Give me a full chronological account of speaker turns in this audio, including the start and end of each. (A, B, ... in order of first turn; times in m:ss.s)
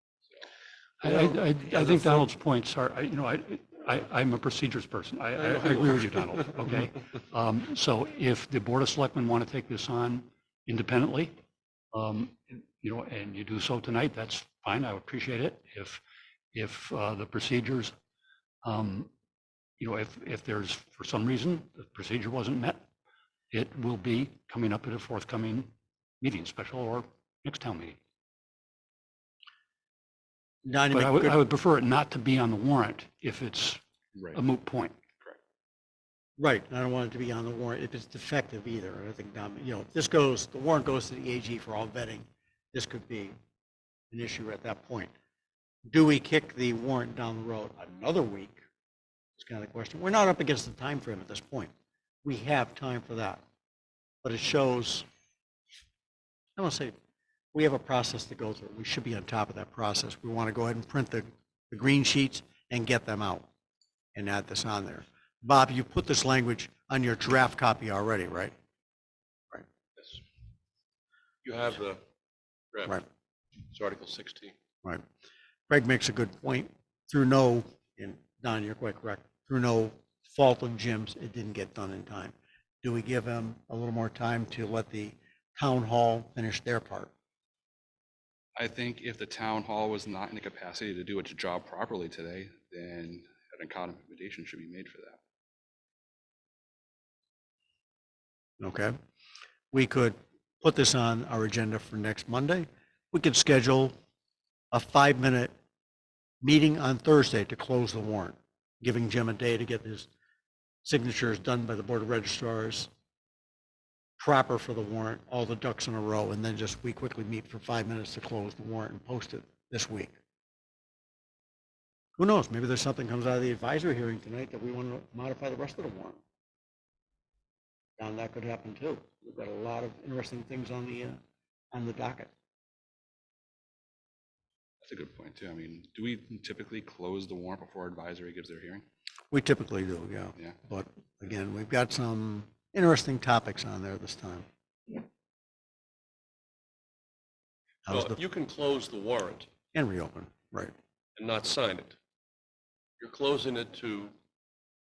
0:01.0-0:11.4 A
0:01.0-0:02.2 B
0:05.4-0:06.3 B
0:11.9-0:17.9 A
0:18.6-0:19.1 A
0:19.8-0:22.8 A
0:23.5-0:28.0 A
0:30.6-0:31.4 C
0:30.9-0:33.8 A
0:34.1-0:34.4 D
0:34.3-0:35.0 A
0:36.4-0:43.3 C
0:44.1-0:45.1 C
0:45.9-0:48.6 C
0:49.4-0:51.7 C
0:52.2-0:53.4 C
0:54.2-0:55.1 C
0:56.6-0:56.9 C
0:57.5-1:03.5 C
1:04.1-1:08.5 C
1:11.4-1:12.0 B
1:12.7-1:13.0 B
1:13.7-1:14.5 B
1:15.7-1:27.1 C
1:28.6-1:35.2 D
1:38.6-1:39.0 C
1:39.7-1:43.9 C
1:44.7-1:45.5 C
1:46.4-1:50.1 C
1:50.8-1:52.9 C
1:54.2-2:00.1 C
2:02.2-2:06.2 C
2:08.0-2:11.2 C
2:11.7-2:12.3 C
2:14.8-2:18.8 D
2:19.3-2:24.4 C
2:27.8-2:28.2 C
2:27.9-2:29.5 B
2:29.7-2:30.7 C
2:31.2-2:32.0 B
2:33.0-2:34.1 B